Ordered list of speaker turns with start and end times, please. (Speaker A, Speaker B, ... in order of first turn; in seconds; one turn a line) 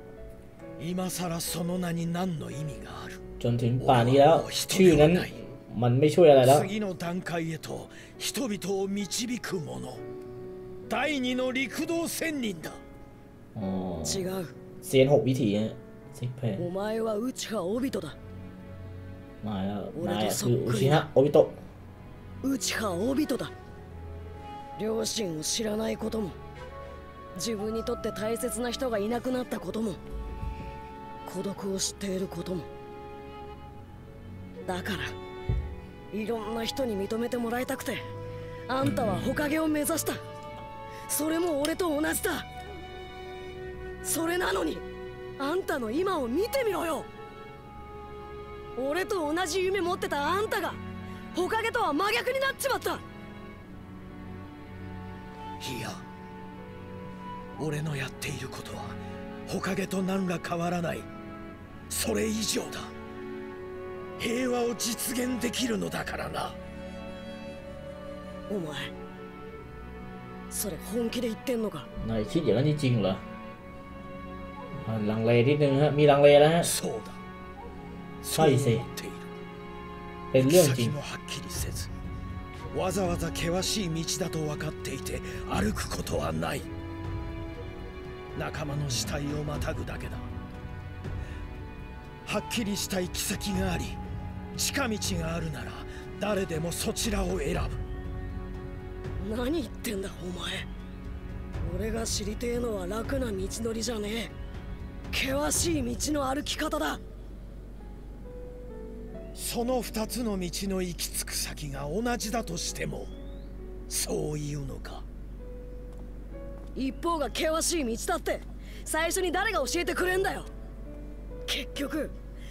Speaker A: 0.8-3.2
Speaker B: 3.4-6.7
Speaker A: 3.8-5.4
Speaker A: 6.4-10.0
Speaker A: 10.9-12.8
Speaker B: 13.6-14.3
Speaker C: 14.0-14.6
Speaker B: 14.8-16.6
Speaker C: 16.6-18.2
Speaker B: 19.4-21.6
Speaker C: 19.9-21.1
Speaker C: 22.4-23.5
Speaker C: 24.8-26.4
Speaker C: 27.4-30.0
Speaker C: 31.3-32.7
Speaker C: 34.7-35.1
Speaker C: 36.1-38.0
Speaker C: 38.7-40.2
Speaker B: 38.8-39.2
Speaker C: 41.1-42.5
Speaker C: 44.0-44.9
Speaker C: 45.4-47.1
Speaker C: 48.8-50.8
Speaker C: 51.3-53.0
Speaker A: 55.6-56.0
Speaker A: 57.6-61.1
Speaker A: 61.9-62.9
Speaker A: 64.2-66.6
Speaker C: 68.5-68.9
Speaker C: 70.5-71.9
Speaker B: 72.0-73.2
Speaker B: 74.8-76.7
Speaker A: 76.6-77.2
Speaker A: 78.2-79.3
Speaker B: 78.3-78.9
Speaker B: 80.3-81.0
Speaker A: 80.4-81.9
Speaker A: 82.7-86.7
Speaker A: 88.3-90.3
Speaker A: 92.2-94.0
Speaker A: 94.6-97.8
Speaker C: 99.2-100.7
Speaker C: 101.6-104.3
Speaker C: 105.1-107.0
Speaker A: 109.3-113.1
Speaker A: 113.9-115.1
Speaker C: 116.8-120.5
Speaker C: 121.5-122.2